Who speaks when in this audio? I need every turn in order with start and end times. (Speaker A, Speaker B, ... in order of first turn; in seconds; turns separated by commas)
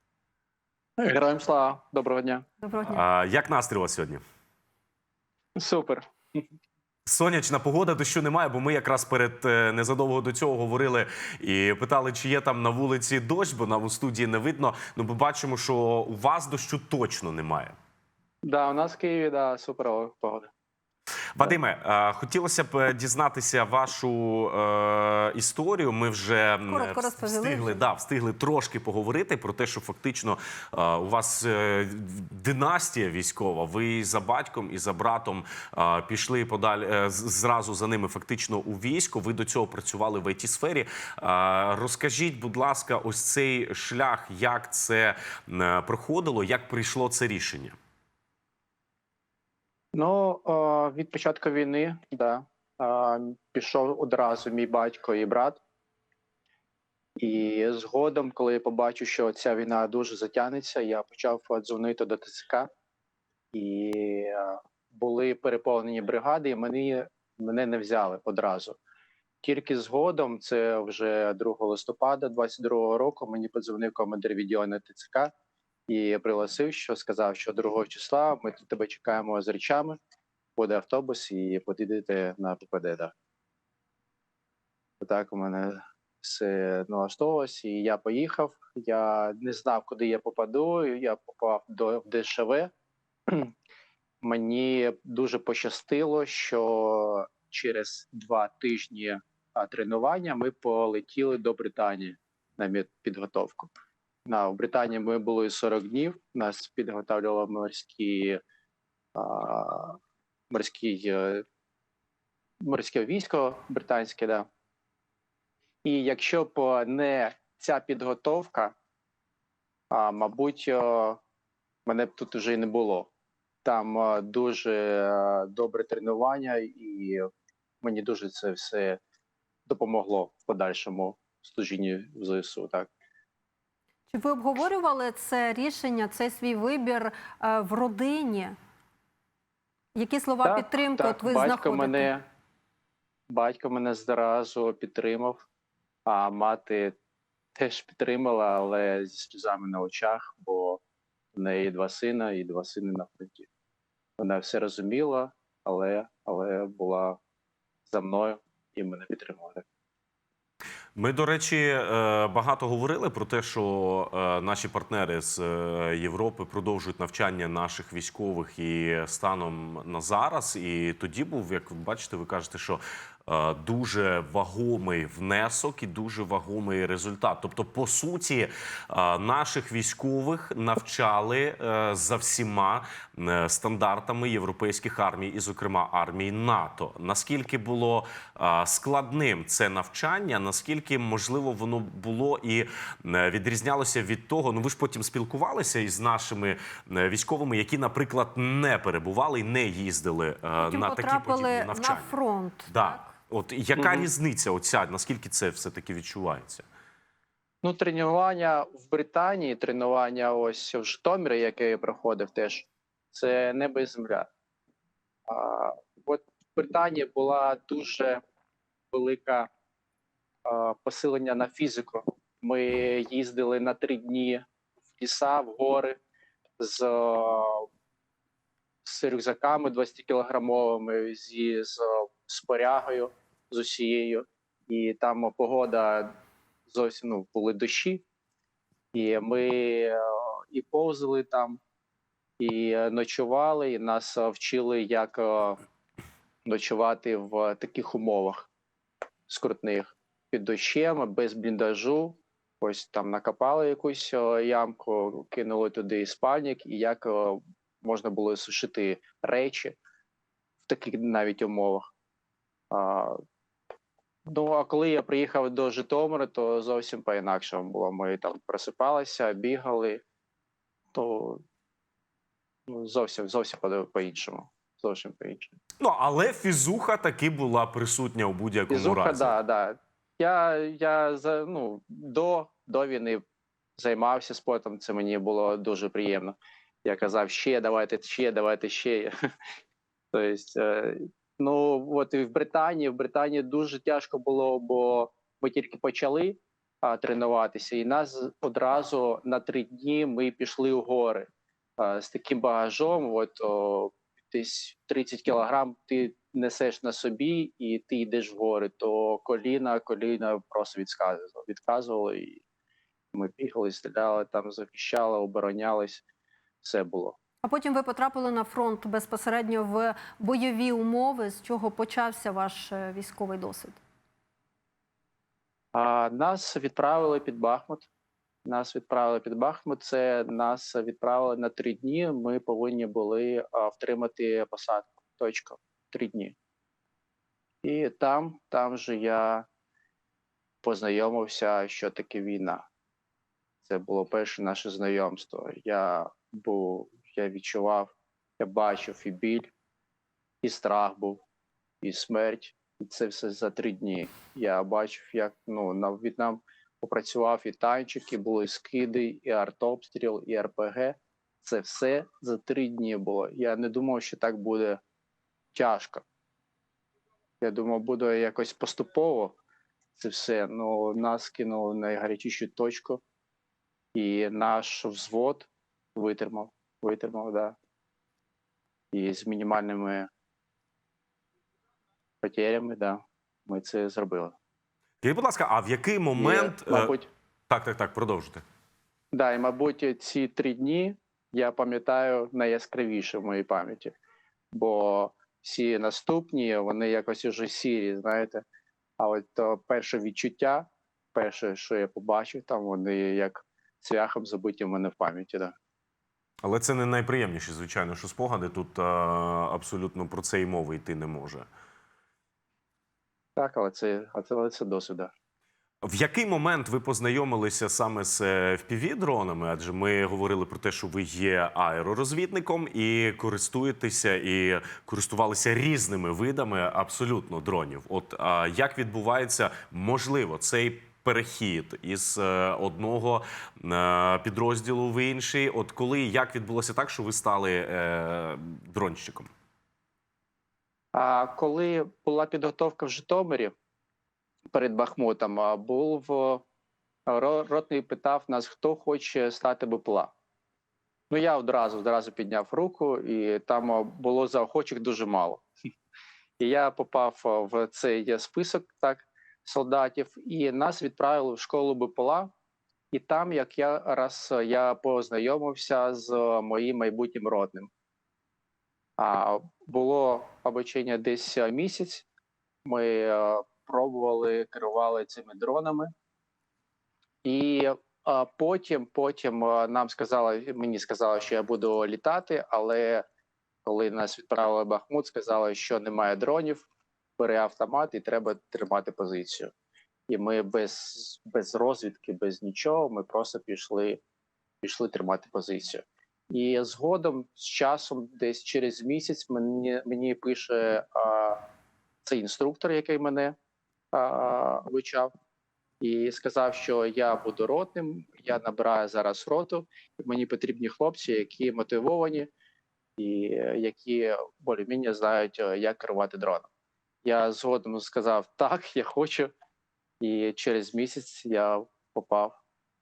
Speaker A: 1.0-2.4, Speaker B: 2.6-3.0, Speaker C: 2.8-4.2, Speaker A: 5.5-6.0, Speaker C: 7.0-17.8, Speaker A: 18.4-20.5, Speaker C: 21.3-47.8, Speaker B: 26.7-27.8, Speaker A: 49.9-55.6, Speaker A: 57.2-62.7, Speaker A: 63.5-68.8, Speaker A: 69.4-75.3, Speaker A: 75.9-80.0, Speaker A: 80.6-83.1, Speaker A: 85.0-92.7, Speaker A: 93.3-93.5, Speaker A: 94.2-103.7, Speaker A: 104.2-108.4, Speaker A: 109.1-110.0, Speaker A: 110.5-111.4, Speaker A: 112.6-114.5, Speaker A: 115.8-118.7, Speaker A: 119.9-121.2, Speaker A: 121.8-123.1, Speaker A: 123.6-127.3, Speaker A: 127.8-129.0, Speaker A: 129.7-132.9, Speaker B: 134.1-138.6, Speaker B: 139.9-142.1, Speaker A: 140.4-142.2, Speaker A: 143.3-145.4, Speaker A: 146.1-146.9, Speaker A: 147.5-150.8, Speaker A: 151.3-153.5, Speaker A: 154.2-157.2, Speaker A: 157.9-159.6, Speaker C: 160.9-202.1, Speaker B: 200.6-203.1, Speaker C: 202.7-206.6, Speaker A: 203.8-204.1, Speaker A: 207.6-214.3, Speaker A: 215.3-218.2, Speaker A: 218.9-219.5, Speaker A: 220.4-224.4, Speaker A: 225.0-226.0, Speaker A: 226.6-227.7, Speaker A: 228.8-236.1, Speaker A: 236.7-238.0, Speaker A: 238.9-241.6, Speaker A: 242.4-245.6, Speaker A: 246.4-248.5, Speaker A: 249.3-259.8, Speaker A: 260.6-261.9, Speaker A: 262.7-263.2, Speaker A: 264.2-270.0, Speaker A: 270.9-271.4, Speaker A: 272.7-275.6, Speaker C: 275.8-279.3, Speaker A: 278.7-283.2, Speaker A: 283.8-289.1, Speaker A: 290.1-312.4, Speaker A: 313.1-316.0, Speaker A: 316.6-317.2, Speaker B: 317.4-323.8, Speaker A: 325.7-327.9, Speaker A: 328.4-336.3, Speaker A: 337.6-339.4, Speaker A: 340.6-342.6, Speaker A: 343.6-349.5, Speaker A: 350.4-351.2, Speaker A: 351.8-364.8, Speaker A: 365.5-366.0, Speaker A: 367.4-369.4, Speaker A: 369.9-373.0, Speaker A: 373.9-377.6, Speaker A: 378.9-380.1, Speaker A: 382.2-384.3, Speaker C: 385.0-386.9, Speaker A: 386.1-387.1, Speaker C: 387.5-388.4, Speaker A: 389.1-393.9, Speaker A: 394.5-398.4, Speaker A: 399.0-405.5, Speaker C: 406.4-411.5, Speaker A: 413.4-415.1, Speaker C: 415.8-439.3, Speaker A: 440.9-443.5, Speaker A: 444.5-446.4, Speaker A: 447.1-450.1, Speaker A: 451.1-455.4, Speaker A: 456.4-462.3, Speaker A: 462.9-467.7, Speaker A: 469.0-472.1, Speaker A: 472.6-475.9, Speaker A: 477.2-483.0, Speaker A: 483.6-486.6, Speaker A: 487.2-489.5, Speaker A: 490.1-494.0, Speaker A: 494.6-501.4, Speaker A: 502.0-503.3, Speaker A: 503.9-505.1, Speaker A: 505.8-512.3, Speaker A: 513.0-516.5, Speaker A: 517.0-519.3, Speaker A: 520.0-522.4